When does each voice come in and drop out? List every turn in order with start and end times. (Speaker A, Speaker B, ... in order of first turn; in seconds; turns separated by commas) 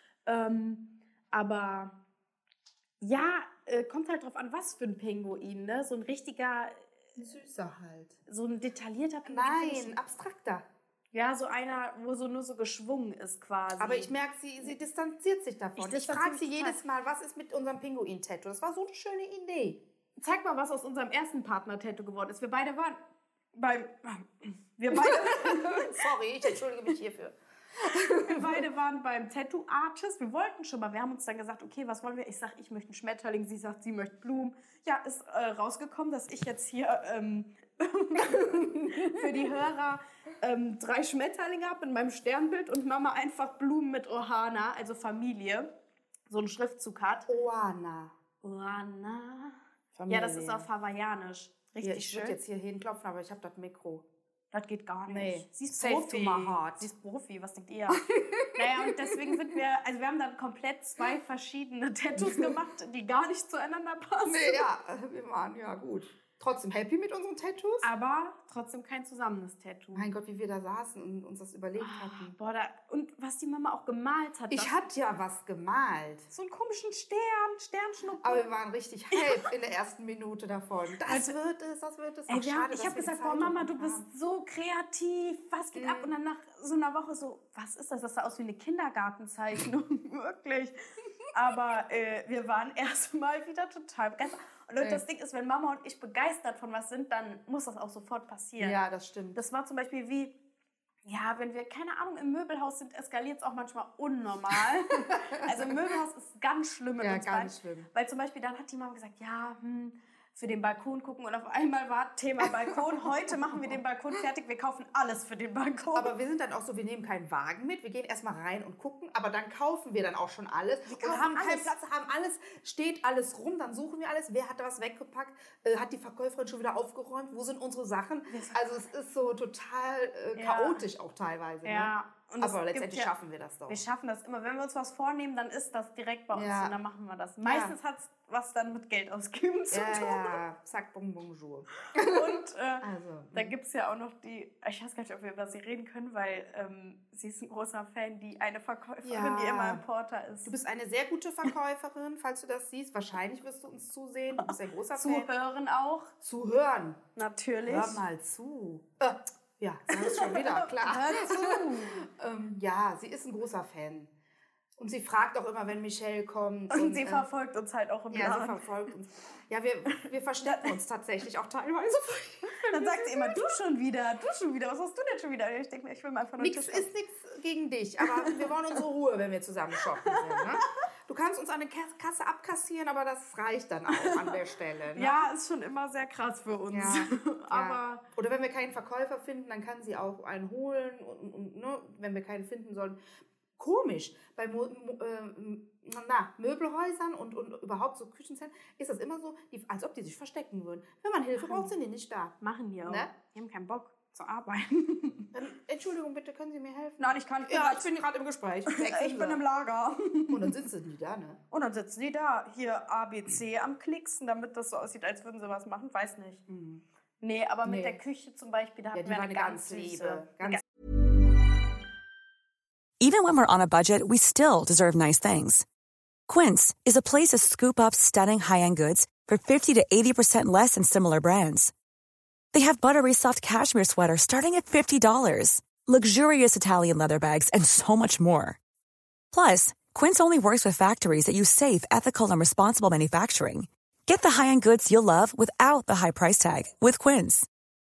Speaker A: 0.3-1.9, Speaker A: 3.0-6.9, Speaker B: 7.2-8.2, Speaker A: 8.3-9.9, Speaker B: 9.2-10.7, Speaker A: 11.1-14.1, Speaker B: 13.8-19.8, Speaker A: 15.8-16.8, Speaker A: 20.2-23.0, Speaker A: 23.5-26.1, Speaker B: 24.9-28.7, Speaker A: 28.1-45.7, Speaker B: 38.2-39.5, Speaker A: 46.3-47.3, Speaker B: 47.3-48.1, Speaker A: 48.4-52.4, Speaker B: 49.9-50.7, Speaker B: 51.8-54.1, Speaker A: 54.5-64.7, Speaker B: 55.1-56.9, Speaker B: 57.9-59.5, Speaker B: 62.2-62.5, Speaker B: 64.3-67.9, Speaker A: 67.8-70.1, Speaker B: 70.0-72.3, Speaker A: 71.8-74.8, Speaker B: 74.5-76.3, Speaker A: 76.3-78.5, Speaker B: 78.2-84.1, Speaker A: 79.1-79.5, Speaker A: 81.1-81.3, Speaker A: 82.3-90.8, Speaker B: 85.7-86.1, Speaker A: 91.3-98.8, Speaker B: 98.6-99.4, Speaker A: 99.3-100.3, Speaker A: 101.1-116.1, Speaker B: 105.1-105.6, Speaker B: 107.0-107.9, Speaker B: 112.4-113.8, Speaker B: 115.9-133.8, Speaker A: 120.9-121.7, Speaker A: 128.3-128.6, Speaker A: 130.4-130.8, Speaker A: 131.7-133.1, Speaker A: 133.7-140.4, Speaker B: 136.3-136.8, Speaker B: 137.4-137.8, Speaker B: 139.7-143.6, Speaker A: 141.9-150.5, Speaker B: 149.0-149.8, Speaker B: 150.4-155.3, Speaker A: 154.4-156.1, Speaker B: 156.2-157.0, Speaker A: 157.2-158.0, Speaker B: 157.7-164.1, Speaker A: 159.9-162.1, Speaker B: 164.8-167.3, Speaker A: 166.7-168.6, Speaker B: 168.1-173.4, Speaker A: 170.4-170.8, Speaker A: 172.5-176.9, Speaker B: 176.4-185.3, Speaker A: 178.0-178.5, Speaker A: 180.0-180.5, Speaker A: 183.9-184.3, Speaker A: 184.9-188.0, Speaker B: 186.7-193.0, Speaker B: 193.6-203.1, Speaker A: 201.4-201.7, Speaker A: 202.4-205.3, Speaker B: 205.3-209.4, Speaker A: 207.0-208.0, Speaker A: 208.7-210.6, Speaker B: 210.3-211.4, Speaker A: 211.5-216.4, Speaker B: 216.5-216.8, Speaker A: 217.2-220.6, Speaker B: 217.6-218.0, Speaker B: 218.9-220.6, Speaker C: 223.0-225.7, Speaker C: 226.3-231.7, Speaker C: 232.5-238.6, Speaker C: 239.3-247.5